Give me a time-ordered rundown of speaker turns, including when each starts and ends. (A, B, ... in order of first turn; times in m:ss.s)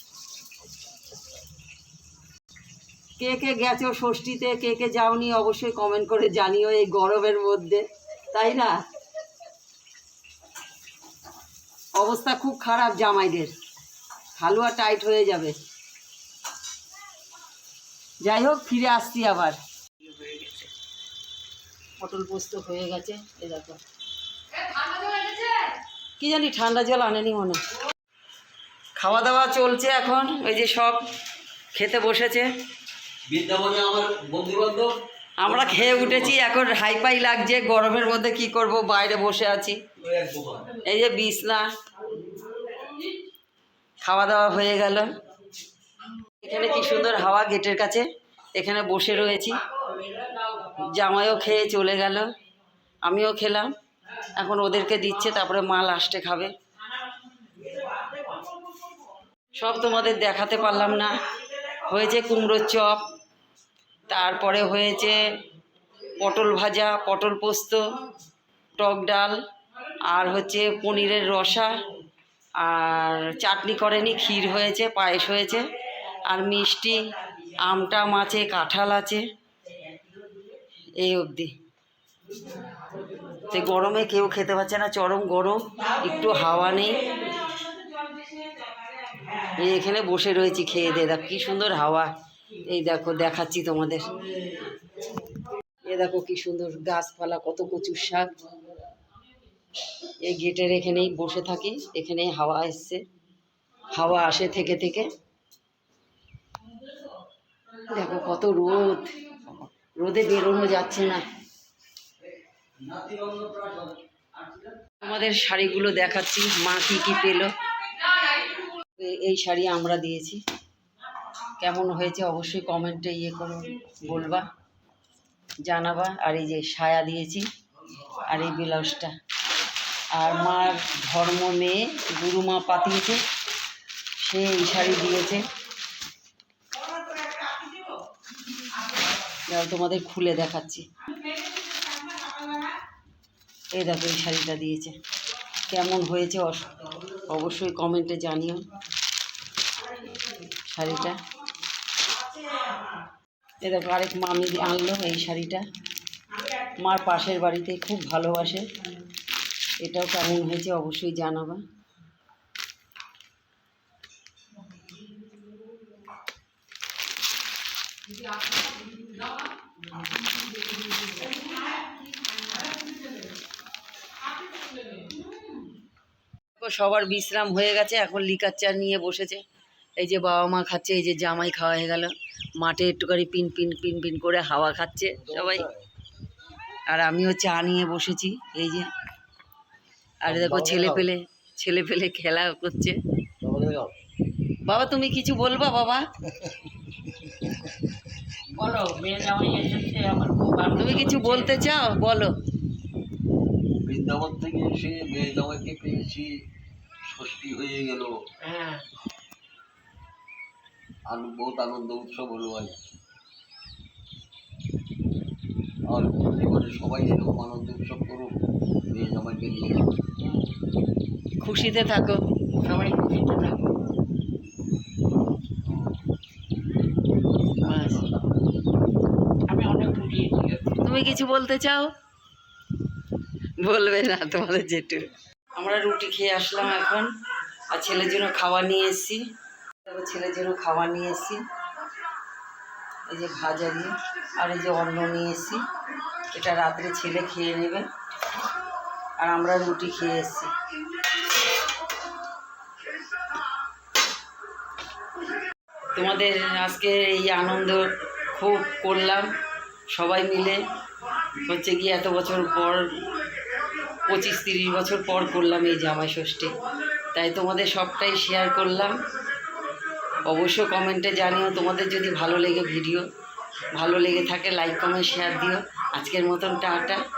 0:03.2-0:08.8 A
0:12.0-0:13.5 A
0:14.4-0:15.6 A
0:18.2-0:20.7 A
0:22.0-0:23.8 A
0:25.1-0:25.5 A
0:26.2-0:27.6 A
0:29.0-0:31.0 A
0:31.8-0:32.5 A
0:33.3-0:36.4 B
0:35.4-0:39.8 A
0:40.0-0:40.7 B
0:40.8-0:41.7 A
0:44.0-0:45.1 A
0:46.4-0:49.6 A
0:50.8-0:52.3 A
0:53.0-0:53.7 A
0:54.4-0:56.5 A
0:59.6-1:01.2 A
1:01.9-1:03.0 A
1:04.1-1:05.2 A
1:06.2-1:07.8 A
1:08.8-1:09.4 A
1:10.0-1:11.8 A
1:12.6-1:17.0 A
1:17.6-1:19.2 A
1:20.8-1:21.5 A
1:23.4-1:27.2 A
1:28.1-1:28.6 C
1:29.4-1:32.1 A
1:32.6-1:34.2 A
1:35.8-1:38.3 A
1:40.2-1:43.0 A
1:43.9-1:45.1 A
1:47.8-1:49.2 A
1:50.0-1:51.3 A
1:52.8-1:53.9 B
1:55.0-1:57.5 A
1:58.3-2:00.4 A
2:01.6-2:04.5 A
2:05.6-2:07.5 A
2:08.1-2:09.1 A
2:10.2-2:13.2 A
2:14.2-2:15.5 A
2:19.5-2:20.9 A
2:23.7-2:25.0 A
2:25.7-2:28.6 A
2:30.7-2:31.2 A
2:33.6-2:35.6 A
2:36.7-2:38.6 A
2:39.8-2:41.6 A
2:56.6-2:59.4 A
3:00.0-3:05.6 A
3:05.2-3:05.8 B
3:06.9-3:08.9 A
3:10.2-3:13.0 A
3:10.3-3:11.1 B
3:13.4-3:13.9 B
3:14.6-3:16.1 A
3:18.5-3:21.6 C
3:20.7-3:22.3 A
3:23.8-3:26.3 B
3:27.0-3:28.2 B
3:28.4-3:28.8 C
3:31.1-3:32.8 B
3:35.9-3:38.4 B
3:38.9-3:40.0 B
3:41.4-3:42.2 A
3:42.6-3:43.6 C
3:47.6-3:48.0 A
3:49.5-3:50.8 C
3:50.8-3:51.9 A
3:53.6-3:57.1 A
3:57.7-3:59.2 A
3:59.9-4:01.4 A
4:03.1-4:05.6 A
4:06.3-4:07.9 A
4:09.2-4:10.5 A
4:16.0-4:19.3 A
4:19.9-4:20.6 A
4:21.4-4:22.9 A
4:24.1-4:26.6 A
4:27.1-4:29.0 A
4:30.3-4:33.0 A
4:33.8-4:37.0 A